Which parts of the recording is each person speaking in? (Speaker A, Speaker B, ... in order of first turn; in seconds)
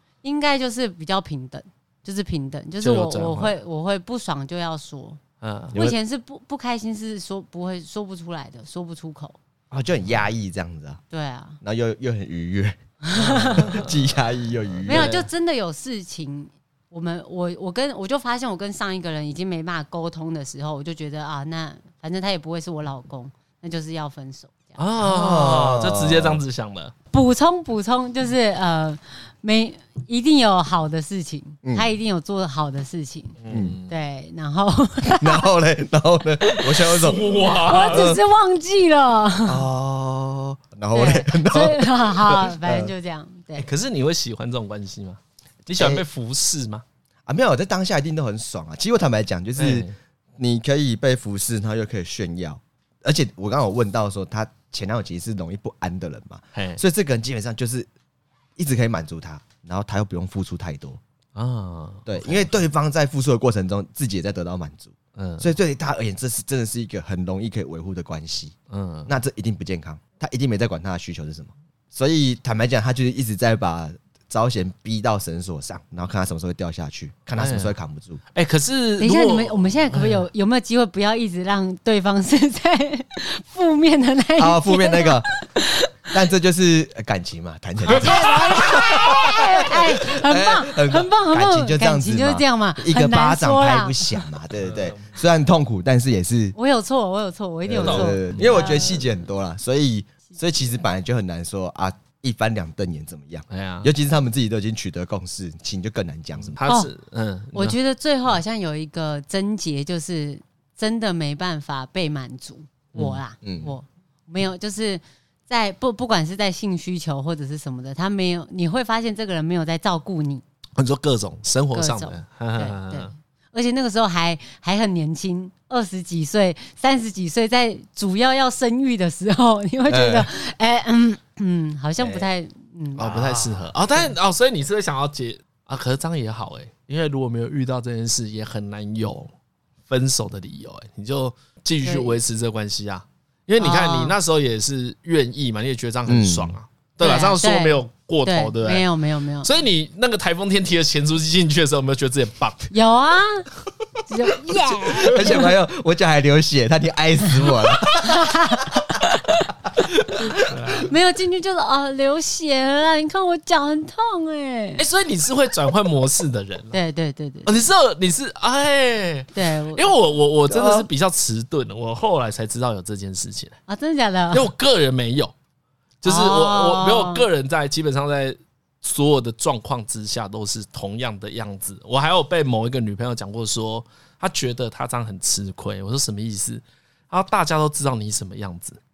Speaker A: 0.2-5.2, 5.7-9.4, 11.1-11.6, 13.0-13.8, 14.9-24.8, 27.1-33.4, 33.9-35.4, 37.6-39.6, 40.9-43.7, 79.0-85.9, 87.9-94.3, 96.5-99.1, 107.5-120.4, 121.7-134.1, 141.8-142.1, 143.6-144.1, 147.0-149.5, 152.7-153.4, 154.1-155.5, 157.9-159.5, 160.8-164.8, 166.7-167.7, 169.3-169.9, 173.7-174.5, 176.0-177.2
Speaker B: 2.8-3.5, 5.4-5.9, 13.4-13.9, 14.8-15.3, 24.8-26.9, 33.4-33.9, 36.7-38.1, 43.6-46.8, 49.6-49.9, 56.5-56.8, 61.3-62.5, 65.2-65.5, 68.7-69.1, 77.4-77.7, 78.3-80.2, 87.9-89.3, 94.6-95.1, 97.8-98.8, 103.5-103.9, 106.5-107.8, 112.9-113.2, 120.8-123.1, 132.0-132.3, 133.0-139.3, 139.9-148.9, 149.4-152.7, 160.3-160.9, 164.8-166.8, 167.4-173.6, 174.3-175.3, 176.0-188.8
Speaker C: 9.7-11.0, 11.6-15.1, 25.0-26.4, 33.5-33.8, 35.1-38.2, 39.5-41.9, 42.6-42.9, 45.8-46.0, 47.3-49.9, 50.4-57.9, 58.6-61.0, 62.1-68.5, 69.1-78.2, 84.4-85.3, 86.1-96.5, 97.7-106.6, 113.4-113.7, 129.9-130.3, 146.1-146.6, 154.8-158.8, 170.5-170.9